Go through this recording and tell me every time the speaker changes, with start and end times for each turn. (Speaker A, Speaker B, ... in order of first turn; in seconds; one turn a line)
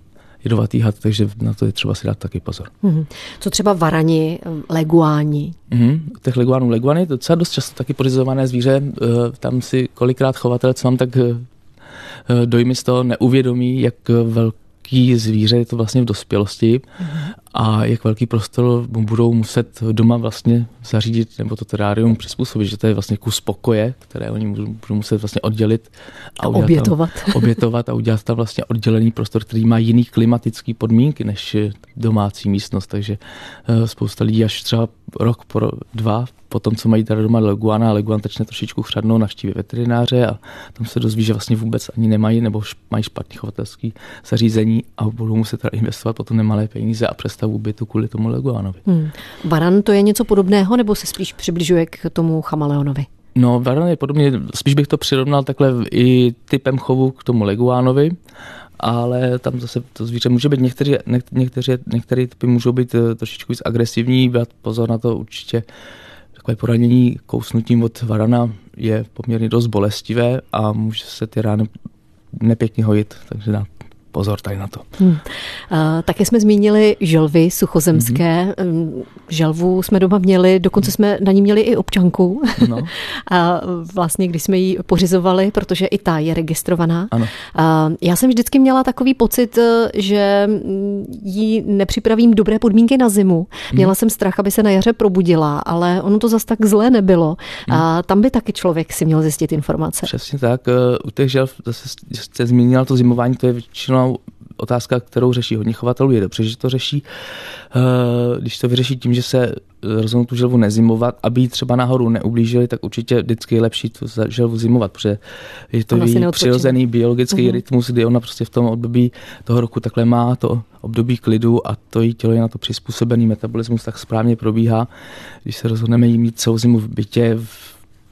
Speaker A: 0.4-2.7
Speaker B: 2.8-5.5
Speaker A: 5.7-11.4
Speaker A: 12.3-16.8
Speaker B: 17.0-17.3
Speaker A: 17.5-48.8
Speaker B: 26.5-27.4
Speaker B: 48.9-53.1
Speaker A: 53.3-58.1
Speaker A: 58.8-65.6
Speaker A: 66.4-71.7
Speaker A: 72.3-74.8
Speaker B: 75.0-100.1
Speaker A: 77.9-78.2
Speaker A: 82.6-82.9
Speaker A: 100.0-107.0
Speaker A: 107.7-115.2
Speaker A: 115.7-124.9
Speaker B: 115.9-116.8
Speaker A: 125.4-127.8